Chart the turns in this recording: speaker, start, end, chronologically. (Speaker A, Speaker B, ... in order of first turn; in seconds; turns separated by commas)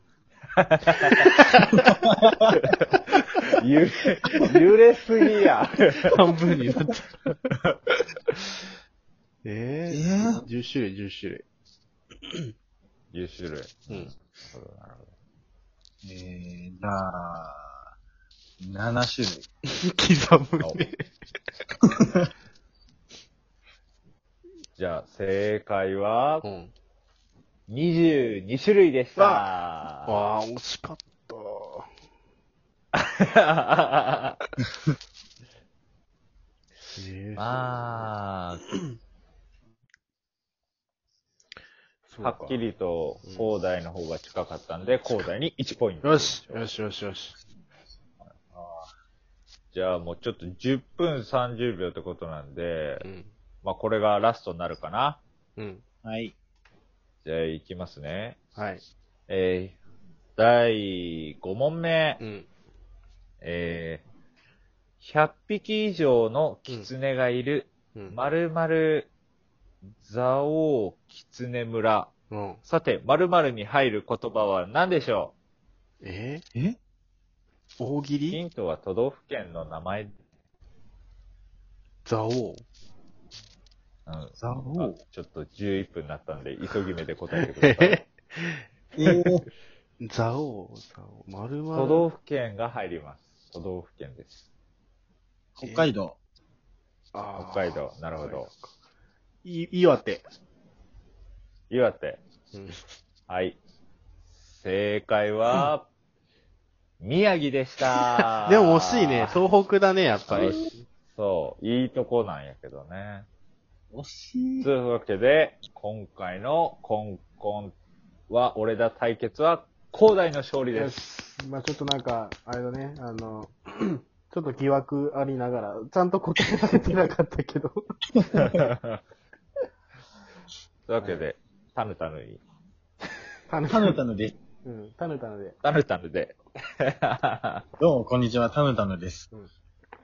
Speaker A: 0.6-1.5, Speaker B: 1.9-2.5, Speaker A: 2.5-6.3, Speaker C: 6.0-7.0, Speaker C: 9.4-11.4, Speaker B: 9.9-10.5, Speaker A: 13.1-15.1, Speaker B: 16.0-17.8, Speaker B: 18.6-19.5, Speaker C: 19.7-21.1, Speaker B: 21.9-22.2, Speaker A: 24.8-26.4, Speaker C: 26.4-26.7, Speaker A: 27.7-30.2, Speaker C: 29.2-29.5, Speaker C: 30.1-31.9, Speaker A: 33.0-34.4, Speaker C: 37.0-38.1, Speaker A: 37.4-38.6, Speaker C: 42.1-42.6, Speaker A: 42.2-46.6, Speaker C: 46.0-47.4, Speaker B: 48.5-48.9, Speaker A: 49.7-53.1, Speaker C: 53.0-53.3, Speaker A: 53.6-55.2, Speaker C: 55.6-55.8, Speaker B: 56.0-56.3, Speaker A: 57.2-58.4, Speaker C: 58.5-58.8, Speaker A: 59.3-59.8, Speaker A: 60.4-62.2, Speaker C: 62.2-62.5, Speaker A: 63.4-64.0, Speaker A: 65.0-69.1, Speaker A: 70.0-72.1, Speaker C: 72.3-72.6, Speaker A: 72.7-75.3, Speaker C: 76.0-76.4, Speaker C: 77.8-78.4, Speaker A: 78.3-80.2, Speaker C: 82.0-82.6, Speaker A: 84.1-88.0, Speaker B: 84.4-85.0, Speaker C: 87.3-89.1, Speaker B: 89.0-89.5, Speaker C: 90.0-92.1, Speaker A: 91.7-94.4, Speaker B: 95.6-96.2, Speaker C: 95.6-95.9, Speaker C: 97.1-98.7, Speaker A: 97.4-98.5, Speaker C: 99.4-100.3, Speaker A: 101.7-102.2, Speaker C: 102.5-102.8, Speaker A: 103.3-103.6, Speaker A: 104.5-105.9, Speaker A: 107.0-109.4, Speaker C: 108.4-110.8, Speaker A: 110.3-113.3, Speaker B: 113.9-114.7, Speaker A: 114.6-117.7, Speaker A: 118.3-121.0, Speaker C: 120.7-127.8, Speaker A: 128.3-129.0, Speaker A: 130.9-132.4, Speaker C: 133.5-134.0, Speaker B: 133.7-134.4, Speaker C: 134.6-135.6, Speaker A: 135.6-137.6, Speaker B: 137.8-139.3